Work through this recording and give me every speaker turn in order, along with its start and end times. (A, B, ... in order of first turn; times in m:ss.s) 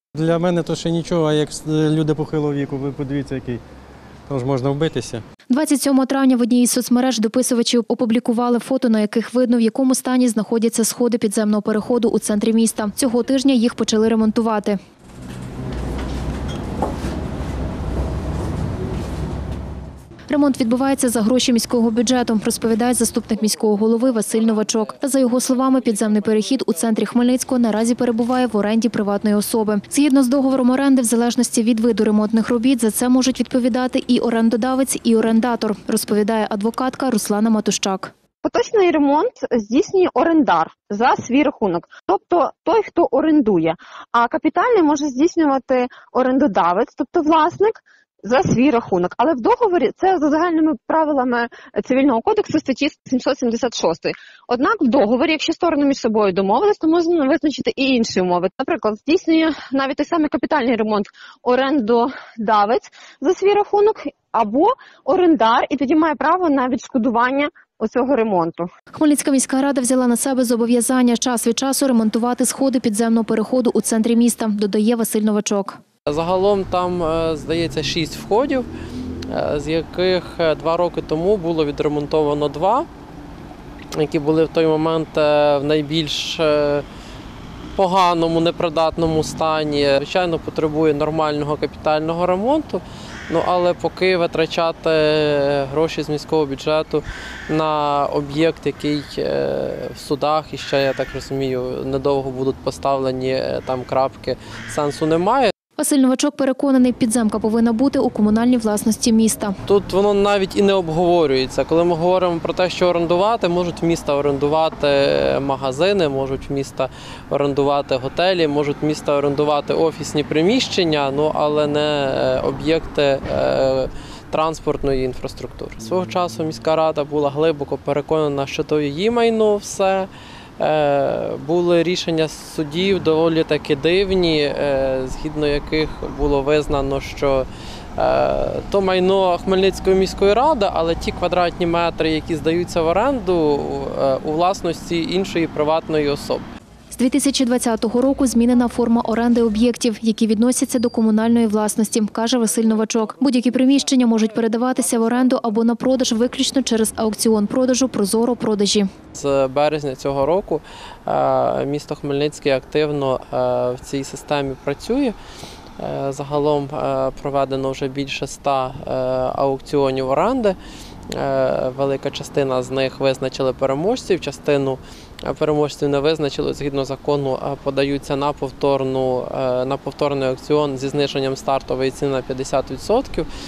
0:00.1-0:03.6 A
0:04.3-0:05.2 A
0:05.5-0:14.8 B
0:20.3-0:38.1 B
0:38.4-1:08.7 C
1:08.9-1:15.8 B
1:16.1-1:18.7 D
1:19.3-1:22.9 D
1:24.0-1:26.8 D
1:27.8-1:45.5 D
1:45.8-1:49.6 B
1:49.6-2:26.5 D
2:26.9-2:38.9 B
2:39.1-2:45.2 D
2:45.8-2:50.6 D
2:51.1-3:03.3 D